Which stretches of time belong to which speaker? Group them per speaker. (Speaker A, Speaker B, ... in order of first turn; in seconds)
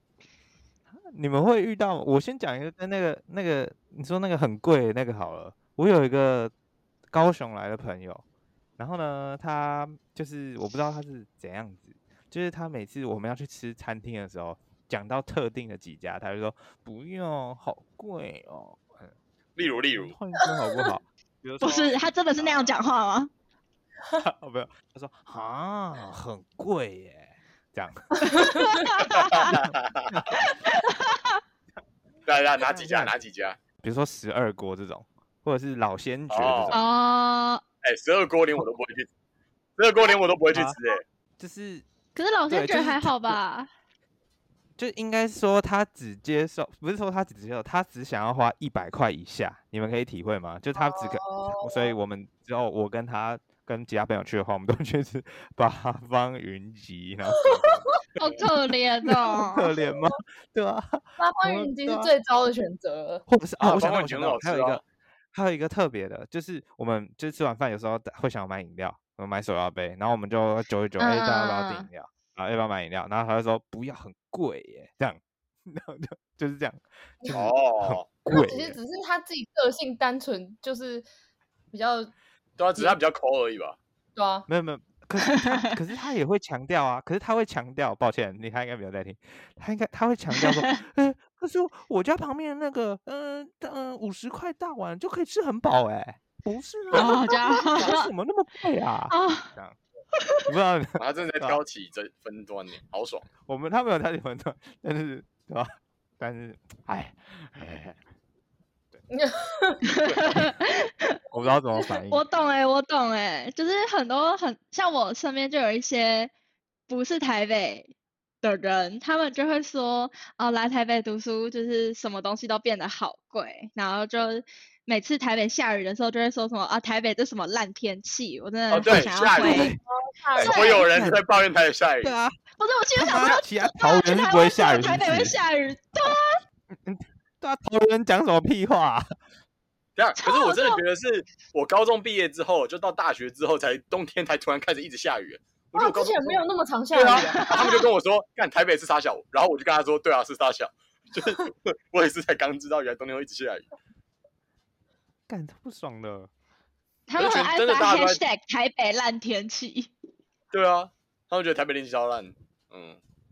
Speaker A: 1.1-6.5, 7.1-8.2, 8.8-19.1, 19.9-22.8, 24.2-28.6, 29.4-30.4, 32.6-33.1, 33.8-36.8, 40.5-40.8, 41.4-41.8, 42.5-43.4, 44.8-57.9, 59.1-62.1, 63.3-64.8, 65.3-78.8, 84.5-99.8, 100.5-101.6, 103.5-108.0, 111.3-112.2, 129.3-129.8, 130.4-131.2, 132.0-132.4, 133.0-135.4, 136.8-139.1, 155.3-156.3
Speaker B: 19.6-20.1, 29.1-30.1, 32.2-33.6, 36.3-36.7, 37.8-39.1, 39.8-41.0, 63.6-64.8, 77.3-78.1, 82.6-83.8, 101.0-103.3, 128.7-129.7, 130.4-132.1, 139.9-153.7, 157.1-158.2, 160.5-163.0
Speaker C: 21.6-23.3, 28.8-29.5, 30.4-31.4, 36.7-37.6, 42.1-43.7, 58.2-59.7, 71.0-71.9, 90.4-90.8, 96.9-98.1, 99.1-99.5, 109.9-111.2, 112.1-116.3, 116.9-129.7, 130.4-130.8, 132.6-136.4, 140.2-140.8, 147.4-147.8, 157.1-159.9
Speaker D: 28.3-28.8, 50.8-51.9, 61.2-63.2, 78.2-81.0, 81.7-82.1, 84.2-84.5, 109.1-109.8, 129.5-130.8, 145.7-147.7